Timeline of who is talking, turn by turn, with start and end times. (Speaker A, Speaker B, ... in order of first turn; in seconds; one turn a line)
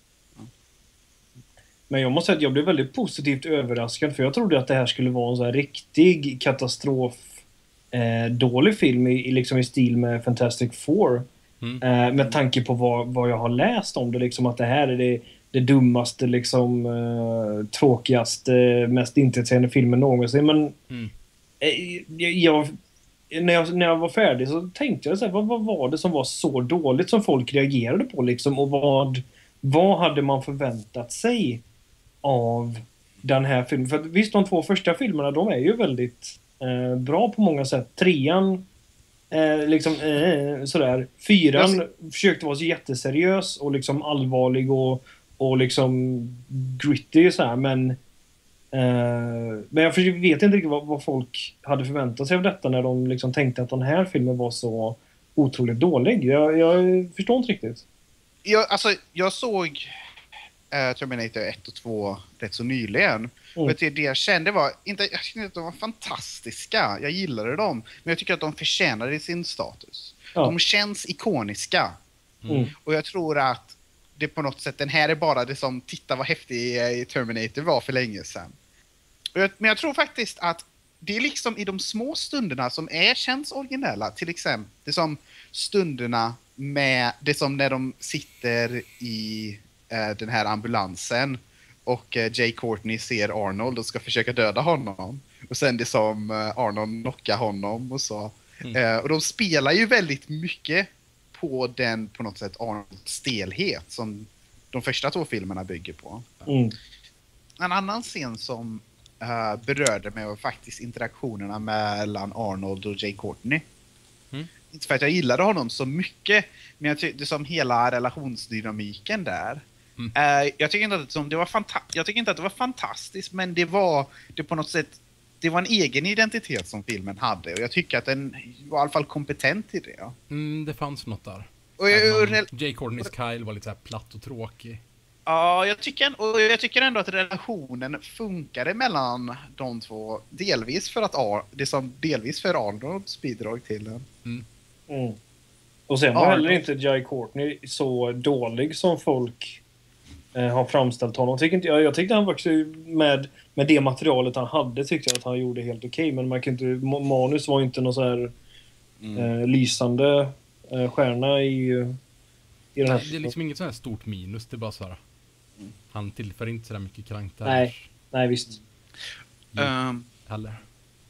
Speaker A: 1.9-7.3
Speaker A: 7.9-11.3
Speaker A: 11.8-20.8
Speaker A: 21.6-22.8
Speaker A: 23.3-31.6
Speaker A: 32.2-38.7
Speaker A: 39.3-48.0
Speaker A: 48.7-57.8
Speaker B: 58.5-59.9
Speaker B: 60.7-72.0
Speaker C: 72.4-72.7
Speaker B: 72.8-78.5
Speaker B: 79.3-106.3
Speaker A: 106.5-106.8
Speaker B: 107.6-113.6
Speaker B: 114.7-119.6
Speaker B: 120.2-130.2
Speaker C: 130.3-134.8
Speaker B: 131.8-132.5
Speaker B: 135.3-144.1
Speaker A: 144.9-145.2
Speaker A: 145.9-149.6
Speaker B: 146.2-146.6
Speaker A: 150.3-158.3
Speaker B: 159.0-159.3
Speaker A: 159.2-162.0
Speaker A: 162.8-163.3
Speaker C: 162.9-165.0
Speaker C: 165.9-167.9
Speaker A: 167.4-168.6
Speaker B: 169.6-170.1
Speaker C: 170.3-170.6